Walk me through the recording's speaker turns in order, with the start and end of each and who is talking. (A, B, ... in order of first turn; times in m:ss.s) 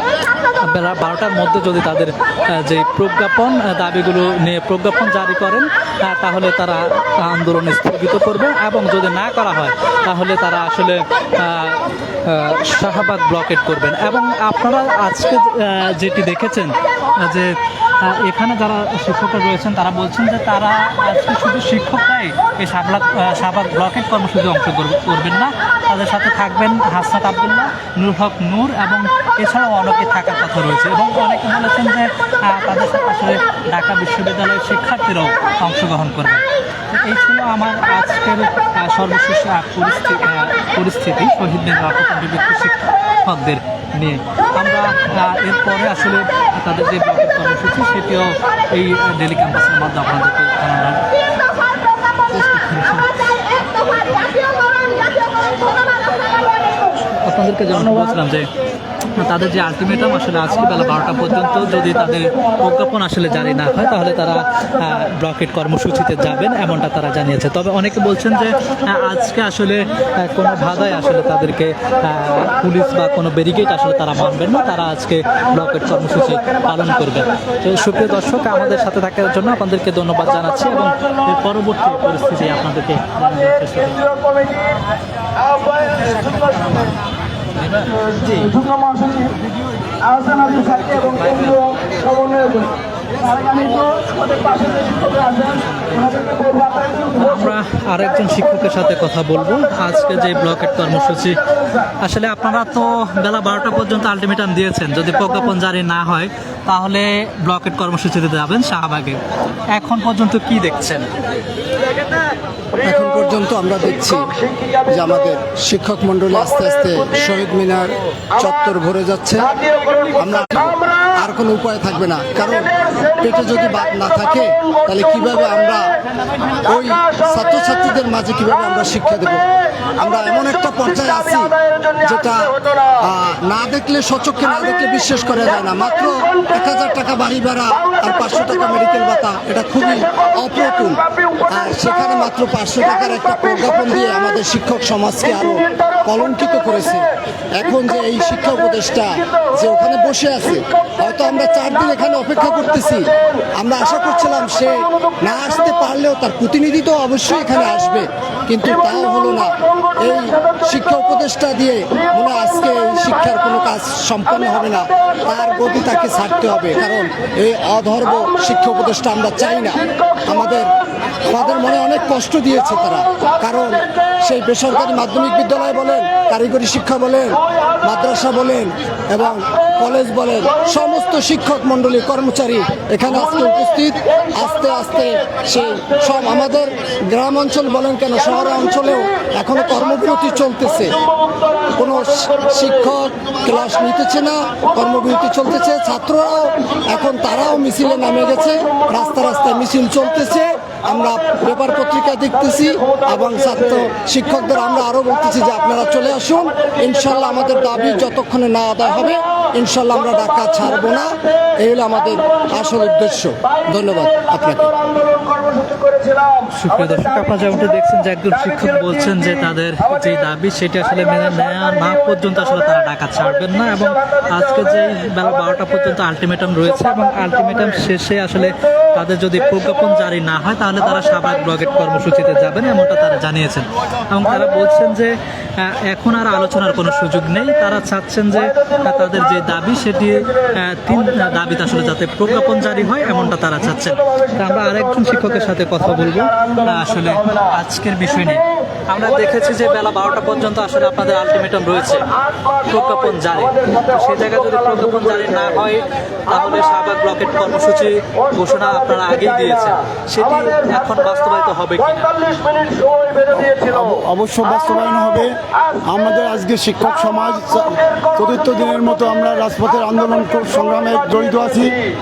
0:00.6-0:51.0 A
0:52.3-0:53.1 A
0:57.2-0:58.5 A
0:59.2-1:24.0 A
1:24.1-1:24.7 B
1:25.5-1:26.8 B
1:28.2-1:29.3 B
1:30.1-1:37.4 B
1:31.2-1:31.6 A
1:35.6-1:36.2 A
1:37.2-1:41.4 A
1:42.0-1:49.2 A
1:49.7-1:51.1 A
1:52.8-1:54.3 C
1:54.9-1:59.6 C
1:59.8-2:00.1 B
2:00.2-2:06.0 C
2:06.6-2:09.5 C
2:10.0-3:11.0 C
3:11.7-3:34.7 C
3:35.0-3:36.4 B
3:36.6-4:12.1 A
3:37.2-3:37.5 B
4:06.3-4:07.3 B
4:12.3-4:15.4 B
4:12.7-4:22.1 A
4:16.9-4:17.2 B
4:17.8-4:19.7 B
4:20.2-4:21.1 B
4:21.8-4:24.0 B
4:23.8-4:25.3 D
4:24.6-4:25.0 B
4:25.9-4:31.7 D
4:27.0-4:31.7 B